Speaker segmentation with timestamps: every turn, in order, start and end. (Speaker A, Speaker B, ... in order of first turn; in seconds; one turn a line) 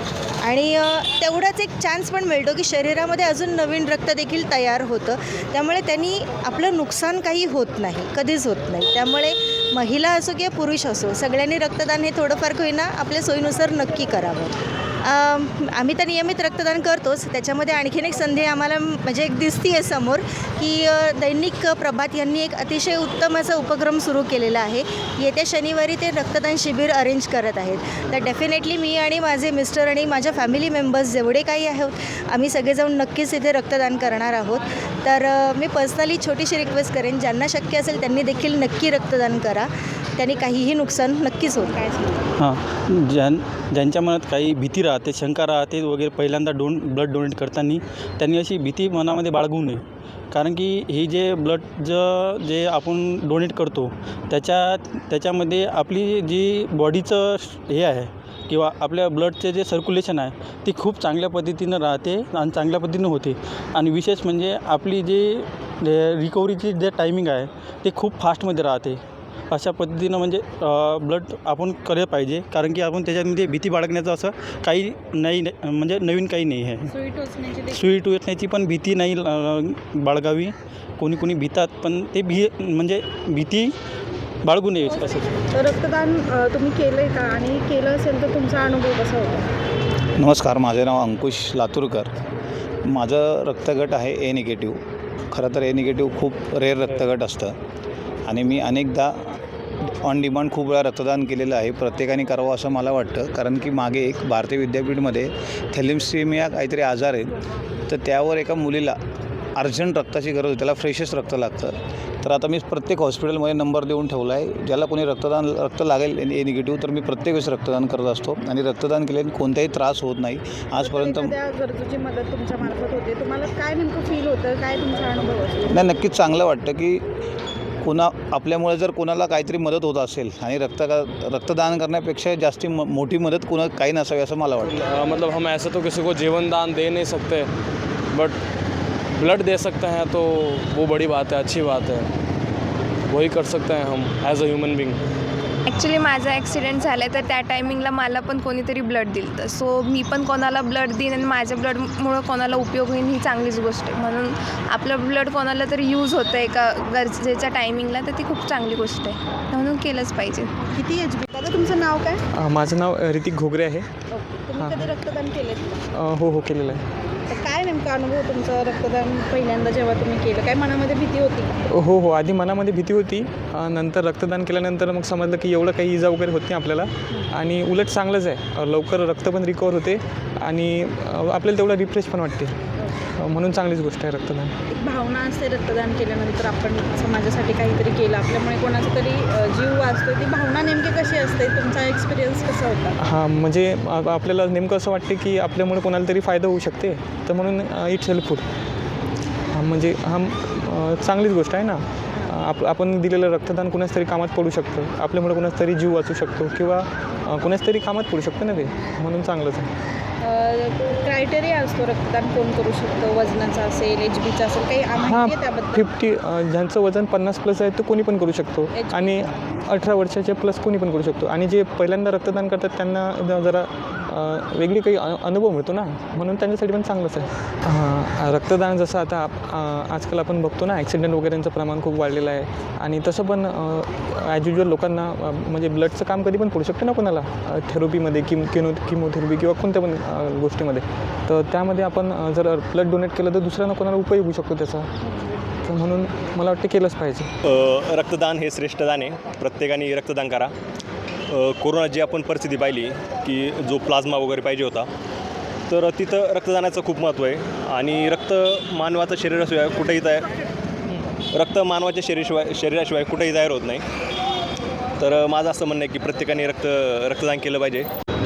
Speaker A: 0.4-41.8
Speaker B: 41.9-42.2
Speaker C: 42.4-76.9
Speaker B: 76.9-77.8
Speaker C: 77.7-83.7
Speaker C: 84.4-85.3
Speaker B: 85.5-89.5
Speaker D: 90.2-92.1
Speaker D: 92.8-94.8
Speaker D: 95.3-97.5
Speaker D: 98.3-99.3
Speaker D: 99.9-107.3
Speaker D: 107.9-109.0
Speaker D: 109.5-121.3
Speaker B: 120.8-125.8
Speaker D: 125.7-127.0
Speaker D: 127.8-134.8
Speaker E: 134.6-137.5
Speaker E: 138.1-138.4
Speaker E: 139.1-142.1
Speaker E: 143.1-145.0
Speaker F: 145.7-160.5
Speaker B: 160.7-162.2
Speaker G: 162.3-163.9
Speaker B: 164.1-165.7
Speaker G: 164.5-164.9
Speaker G: 165.9-166.8
Speaker B: 167.3-171.5
Speaker G: 171.7-182.5
Speaker G: 183.2-184.5
Speaker B: 184.7-192.9
Speaker G: 193.0-198.4
Speaker G: 199.5-209.7
Speaker B: 210.2-215.8
Speaker G: 215.0-244.9
Speaker B: 218.7-219.2
Speaker G: 245.7-247.3
Speaker H: 247.4-250.5
Speaker H: 251.3-254.9
Speaker H: 255.7-260.3
Speaker H: 261.3-263.8
Speaker H: 265.0-267.9